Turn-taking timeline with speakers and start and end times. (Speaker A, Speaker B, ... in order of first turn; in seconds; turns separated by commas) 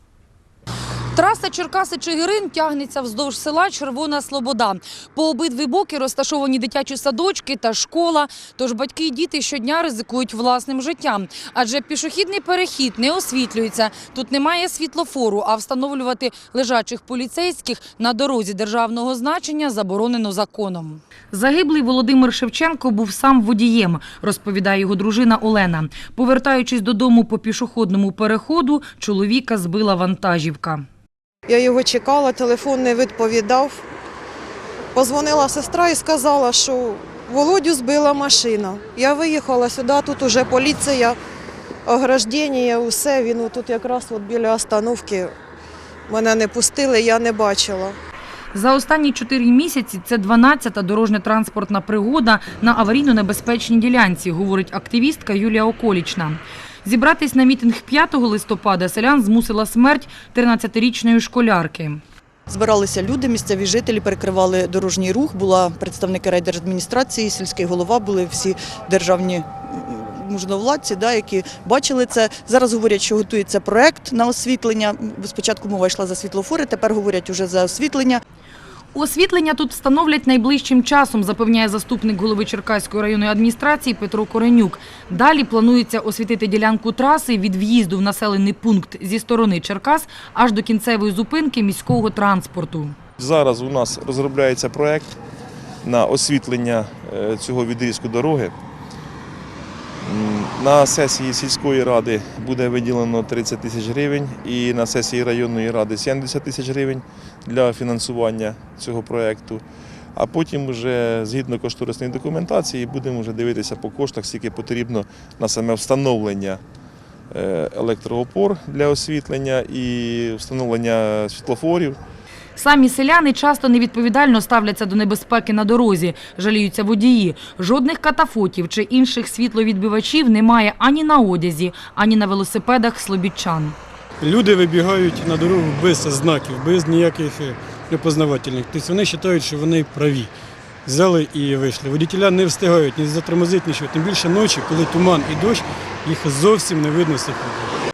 Speaker A: 1.1-30.8, Speaker B: 31.5-33.8, Speaker B: 34.9-41.2, Speaker B: 41.8-45.3, Speaker B: 46.1-48.0, Speaker A: 48.5-62.0, Speaker C: 62.5-78.2, Speaker A: 78.9-92.9, Speaker D: 93.2-95.1, Speaker D: 95.8-98.5, Speaker D: 100.0-109.6, Speaker D: 110.2-116.6, Speaker D: 117.3-122.0, Speaker A: 122.6-133.8, Speaker E: 134.2-140.3, Speaker E: 140.8-147.8